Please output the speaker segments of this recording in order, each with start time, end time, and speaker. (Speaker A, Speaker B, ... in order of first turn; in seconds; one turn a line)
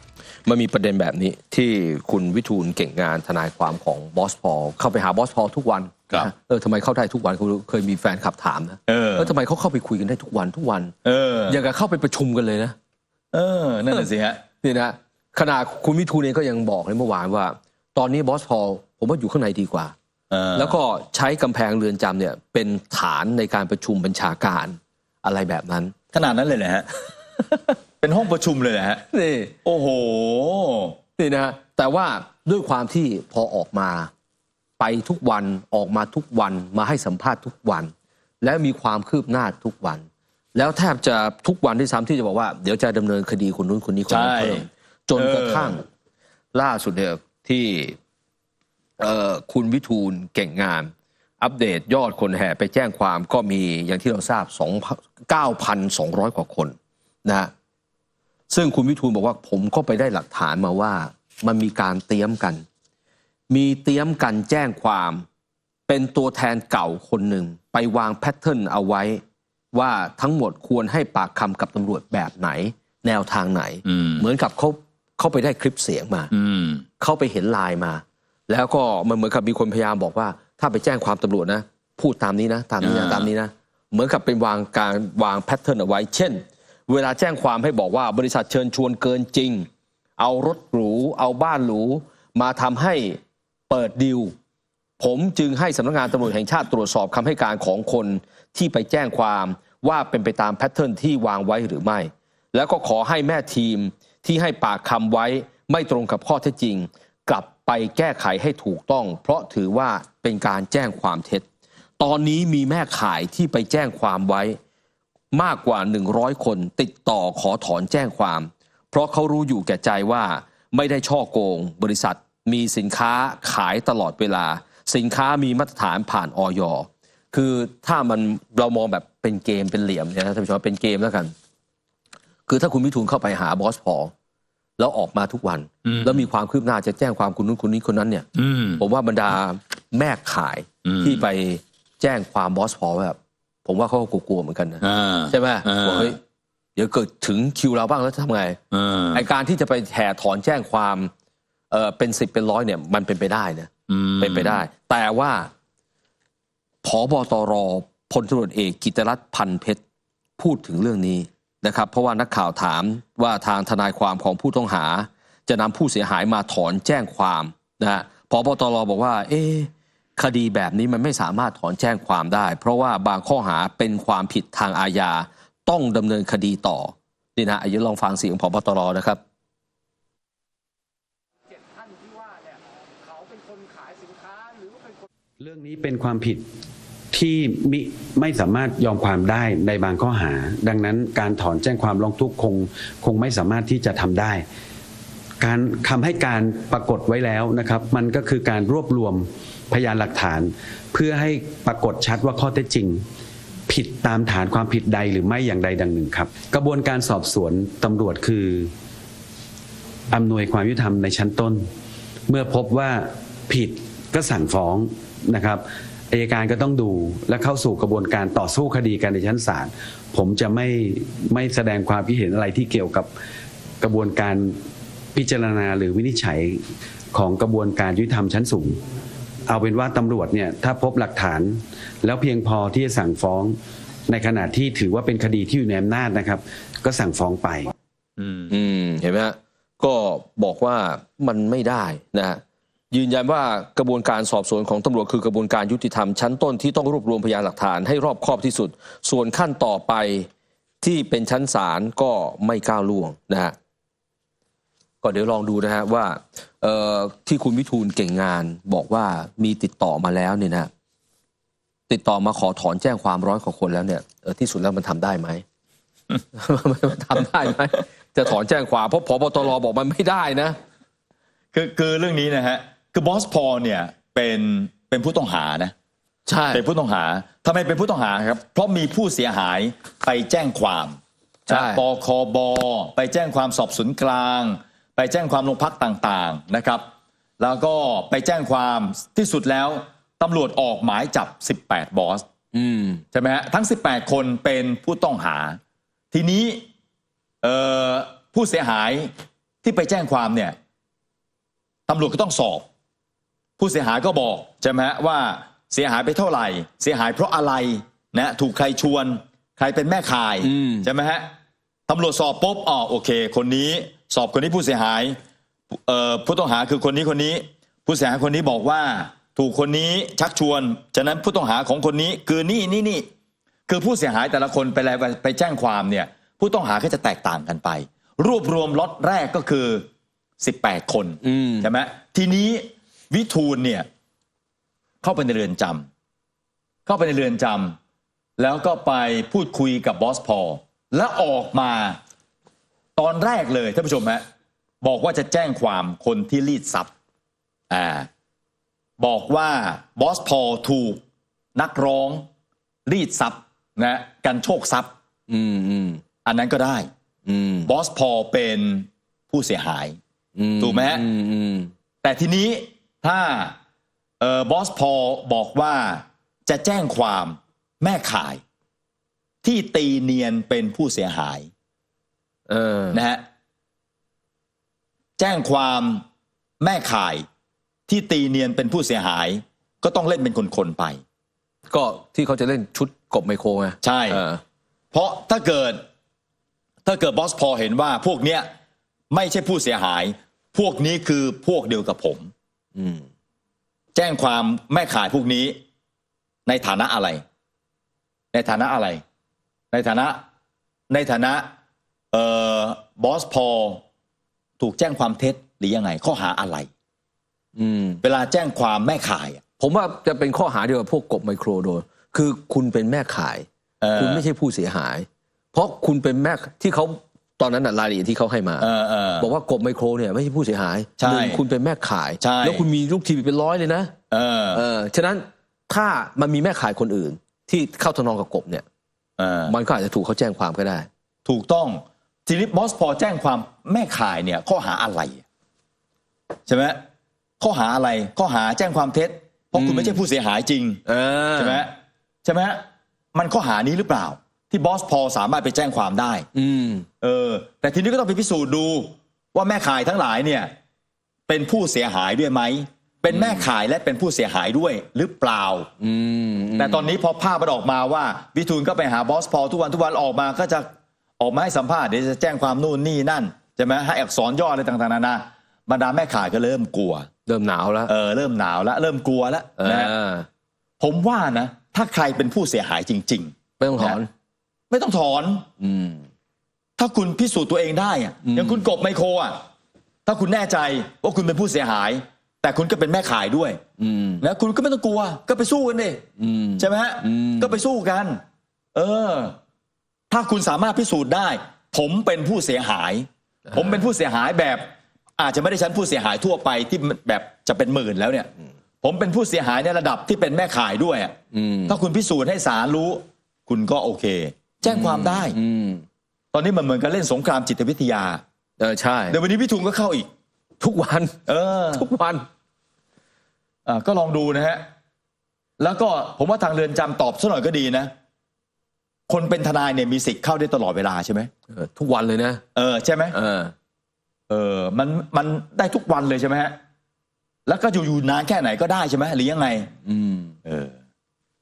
Speaker A: 0.5-10.9
Speaker B: 8.9-9.3
Speaker B: 11.0-11.6
Speaker A: 11.5-12.8
Speaker B: 13.3-14.4
Speaker A: 14.6-19.9
Speaker B: 20.3-20.8
Speaker A: 20.5-25.9
Speaker B: 26.1-26.9
Speaker B: 28.0-29.0
Speaker A: 29.1-29.5
Speaker B: 29.6-31.0
Speaker A: 31.2-34.1
Speaker A: 34.8-45.8
Speaker B: 44.1-44.6
Speaker B: 45.1-45.7
Speaker A: 46.5-48.0
Speaker A: 49.0-56.7
Speaker A: 57.2-57.5
Speaker A: 58.5-62.6
Speaker A: 63.5-65.2
Speaker A: 65.9-69.2
Speaker A: 69.7-76.3
Speaker B: 73.8-74.2
Speaker B: 76.3-76.8
Speaker A: 77.0-93.2
Speaker B: 82.8-83.3
Speaker A: 93.7-94.3
Speaker A: 95.0-111.4
Speaker A: 112.0-114.6
Speaker A: 115.3-131.3
Speaker A: 132.5-134.1
Speaker A: 134.8-138.3
Speaker B: 135.8-136.2
Speaker B: 138.3-138.8
Speaker A: 138.8-146.2
Speaker B: 140.8-141.2
Speaker B: 144.8-146.1
Speaker A: 146.8-148.6
Speaker B: 148.7-149.2
Speaker A: 149.1-151.1
Speaker A: 151.7-155.5
Speaker B: 153.9-154.6
Speaker A: 156.8-159.8
Speaker A: 160.4-179.2
Speaker C: 181.7-184.8
Speaker D: 185.4-186.4
Speaker D: 187.1-194.4
Speaker D: 195.4-203.0
Speaker D: 203.7-208.7
Speaker D: 210.1-211.6
Speaker D: 212.3-223.1
Speaker D: 223.8-224.5
Speaker D: 225.1-226.6
Speaker D: 227.1-228.8
Speaker D: 229.5-233.5
Speaker D: 234.1-237.7
Speaker B: 238.2-238.5
Speaker A: 238.5-242.4
Speaker A: 242.9-250.3
Speaker A: 250.8-253.5
Speaker A: 255.0-260.7
Speaker A: 261.9-265.4
Speaker A: 266.3-270.6
Speaker B: 271.5-275.7
Speaker A: 276.3-276.6
Speaker B: 276.5-281.0
Speaker A: 281.5-281.8
Speaker B: 281.5-286.9
Speaker B: 287.4-292.2
Speaker A: 292.5-293.0
Speaker B: 293.1-295.6
Speaker B: 296.1-296.6
Speaker B: 297.4-299.1
Speaker B: 299.6-300.6
Speaker B: 301.9-302.6
Speaker B: 303.6-311.3
Speaker A: 310.4-310.9
Speaker B: 311.9-315.2
Speaker B: 315.7-323.1
Speaker B: 323.7-329.9
Speaker B: 330.4-333.9
Speaker A: 331.2-331.7
Speaker B: 335.0-335.9
Speaker B: 336.9-337.8
Speaker B: 338.4-342.0
Speaker B: 342.9-344.2
Speaker B: 344.8-346.9
Speaker B: 347.7-348.1
Speaker B: 349.0-351.0
Speaker B: 351.6-352.2
Speaker B: 352.9-354.9
Speaker A: 355.3-356.0
Speaker B: 356.2-356.9
Speaker A: 357.2-357.7
Speaker B: 357.6-360.0
Speaker A: 360.4-361.7
Speaker B: 360.6-361.0
Speaker B: 362.0-363.6
Speaker B: 364.2-368.4
Speaker B: 369.4-371.5
Speaker A: 372.5-373.0
Speaker B: 372.9-373.2
Speaker B: 375.2-376.0
Speaker B: 376.6-377.2
Speaker B: 377.9-381.0
Speaker A: 381.7-384.4
Speaker B: 383.8-384.2
Speaker B: 384.9-385.8
Speaker B: 386.9-388.5
Speaker B: 389.1-392.3
Speaker A: 392.8-393.1
Speaker B: 393.9-395.6
Speaker B: 396.5-397.2
Speaker B: 398.3-399.0
Speaker B: 399.7-400.2
Speaker B: 400.9-401.5
Speaker B: 402.1-403.8
Speaker B: 404.6-406.7
Speaker A: 407.6-408.0
Speaker B: 408.0-409.4
Speaker A: 409.6-418.7
Speaker B: 413.8-414.2
Speaker B: 418.6-419.3
Speaker A: 419.2-423.9
Speaker B: 421.0-421.4
Speaker B: 422.2-422.7
Speaker B: 424.1-424.6
Speaker A: 424.5-428.6
Speaker B: 429.2-429.5
Speaker A: 429.5-430.9
Speaker B: 431.2-435.2
Speaker B: 436.5-436.8
Speaker B: 437.4-440.8
Speaker A: 439.6-440.0
Speaker A: 440.9-441.6
Speaker B: 441.3-441.7
Speaker B: 442.2-446.2
Speaker A: 446.3-446.9
Speaker B: 447.0-450.5
Speaker B: 451.3-455.7
Speaker A: 453.1-453.4
Speaker A: 455.8-456.9
Speaker B: 456.6-460.7
Speaker B: 461.2-467.1
Speaker A: 467.3-467.9
Speaker B: 467.9-469.9
Speaker A: 469.6-470.3
Speaker B: 470.8-474.0
Speaker A: 473.6-474.1
Speaker B: 474.7-475.4
Speaker A: 475.6-476.1
Speaker B: 476.8-479.4
Speaker A: 478.2-478.7
Speaker B: 480.1-483.6
Speaker A: 483.8-484.2
Speaker B: 484.2-486.0
Speaker A: 486.2-487.6
Speaker B: 486.6-488.2
Speaker B: 488.7-489.4
Speaker B: 490.1-498.3
Speaker A: 493.5-493.8
Speaker B: 498.8-501.1
Speaker A: 501.3-501.8
Speaker B: 501.7-505.4
Speaker A: 504.6-505.8
Speaker B: 506.3-508.2
Speaker A: 508.6-509.2
Speaker B: 509.1-510.1
Speaker A: 510.6-511.1
Speaker B: 511.2-511.8
Speaker A: 511.7-512.2
Speaker B: 513.6-514.6
Speaker B: 515.6-517.9
Speaker B: 519.1-521.3
Speaker A: 521.5-522.4
Speaker B: 522.5-523.1
Speaker A: 523.1-523.5
Speaker B: 524.3-526.5
Speaker B: 527.5-529.7
Speaker A: 529.8-530.3
Speaker B: 530.4-530.7